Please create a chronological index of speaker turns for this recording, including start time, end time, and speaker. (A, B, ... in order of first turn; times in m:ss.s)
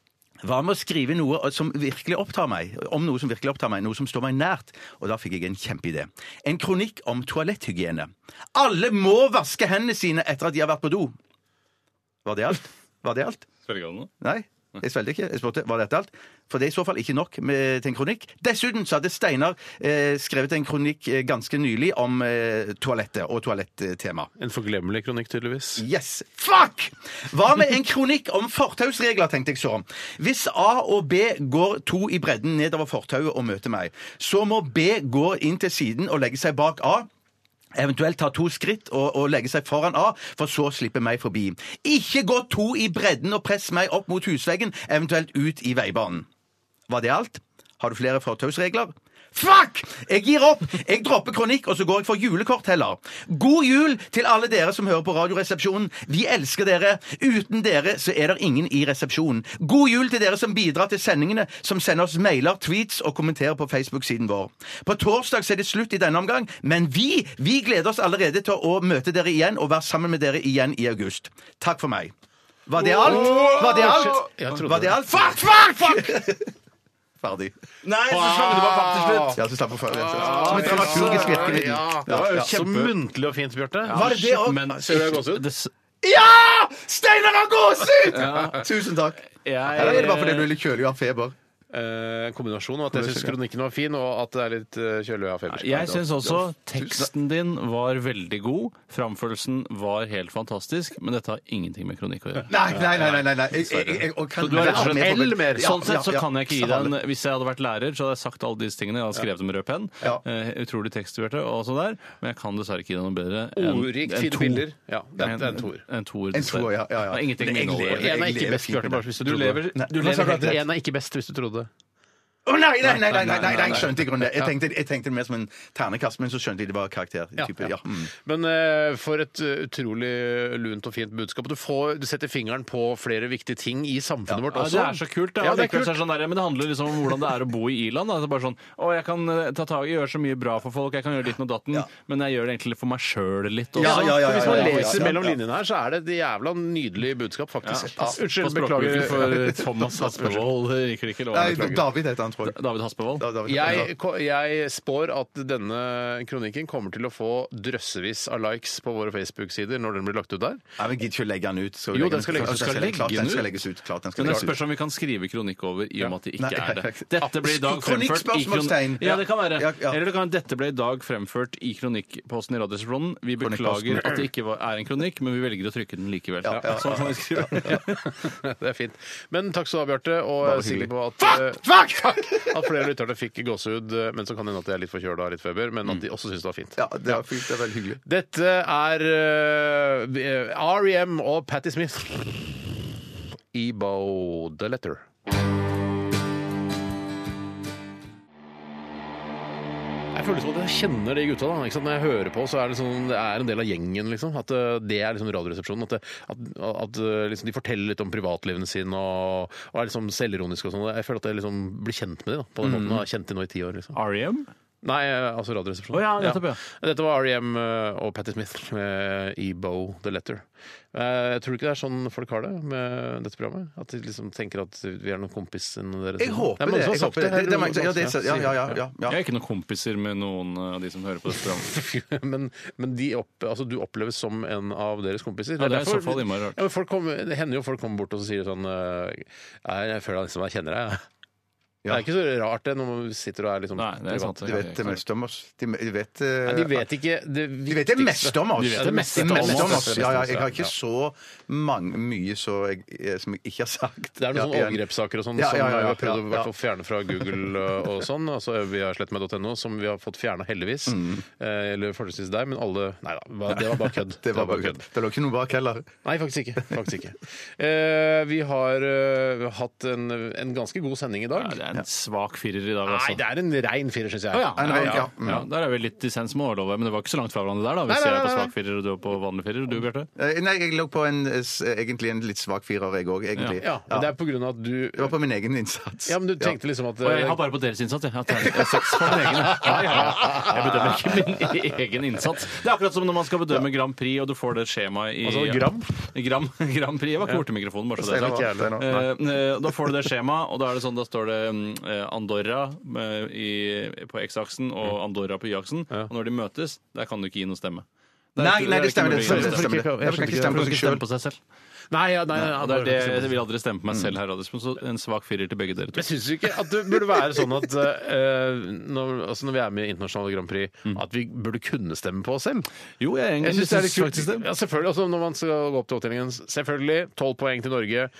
0:00.4-0:11.1 A
0:12.2-0:13.5 A
0:13.7-0:14.1 B
0:14.2-0:24.3 A
0:24.4-0:25.8 C
0:25.8-0:37.1 A
0:37.7-0:46.3 A
0:46.9-1:12.1 A
1:12.7-1:16.5 A
1:12.8-1:15.4 C
1:13.0-1:14.2 B
1:17.2-1:17.5 A
1:17.8-1:19.4 B
1:18.1-1:19.4 C
1:19.4-1:22.9 A
1:19.9-1:24.1 C
1:20.1-1:22.9 B
1:23.8-1:25.7 B
1:23.9-1:25.2 A
1:24.8-1:25.4 C
1:26.0-1:31.3 A
1:28.1-1:30.6 B
1:31.7-1:36.1 C
1:32.9-1:33.4 A
1:35.5-1:58.3 B
1:36.8-1:37.1 A
1:42.5-1:46.9 A
1:44.5-1:46.0 C
1:53.6-1:55.8 C
1:56.3-1:59.2 A
1:58.0-2:01.7 C
1:59.2-2:00.6 B
1:59.7-2:00.6 A
2:02.4-2:08.1 A
2:02.9-2:04.4 C
2:03.1-2:03.9 B
2:07.4-2:16.0 C
2:14.5-2:25.2 B
2:23.8-2:25.4 A
2:23.8-2:29.6 C
2:27.6-2:31.8 B
2:29.3-2:29.7 A
2:31.3-2:32.6 A
2:32.4-2:33.8 B
2:33.2-2:33.9 A
2:33.4-2:40.6 C
2:40.8-2:44.6 A
2:41.9-2:43.3 C
2:42.5-2:43.5 B
2:44.2-2:58.0 B
2:46.4-2:50.0 A
2:53.4-2:54.2 A
2:56.6-2:57.6 A
2:57.6-3:07.2 C
3:00.4-3:02.7 A
3:06.8-3:08.0 A
3:08.0-3:12.8 C
3:13.5-3:15.0 C
3:20.1-3:34.0 C
3:32.6-3:33.0 A
3:33.9-3:34.5 B
3:34.8-3:48.8 C
3:35.9-3:36.6 B
3:46.2-3:49.2 A
3:49.1-3:51.7 B
3:51.6-4:01.0 C
3:55.6-3:56.6 B
4:01.9-4:04.4 C
4:03.8-4:05.0 B
4:04.4-4:06.8 A
4:06.4-4:10.7 C
4:07.7-4:14.8 A
4:08.5-4:10.4 B
4:14.2-4:24.8 C
4:15.4-4:16.5 A
4:17.2-4:17.4 A
4:20.9-4:21.2 A
4:23.5-4:25.9 A
4:26.0-4:31.6 C
4:31.3-4:33.2 B
4:32.8-4:35.4 C
4:34.3-4:40.1 B
4:34.6-4:35.4 A
4:37.9-4:38.5 C
4:40.2-4:44.1 A
4:43.3-4:43.6 B
4:43.6-4:45.1 C
4:45.0-4:46.6 A
4:46.1-4:47.4 C
4:47.0-5:11.4 B
4:48.5-4:49.5 A
4:49.5-4:50.6 C
4:55.2-4:56.0 C
4:58.0-4:58.9 A
4:58.0-4:59.1 C
5:08.4-5:11.0 A
5:08.8-5:10.7 C
5:11.9-5:13.4 C
5:12.3-5:16.1 B
5:16.0-5:22.7 C
5:23.0-5:24.4 B
5:23.4-5:28.1 C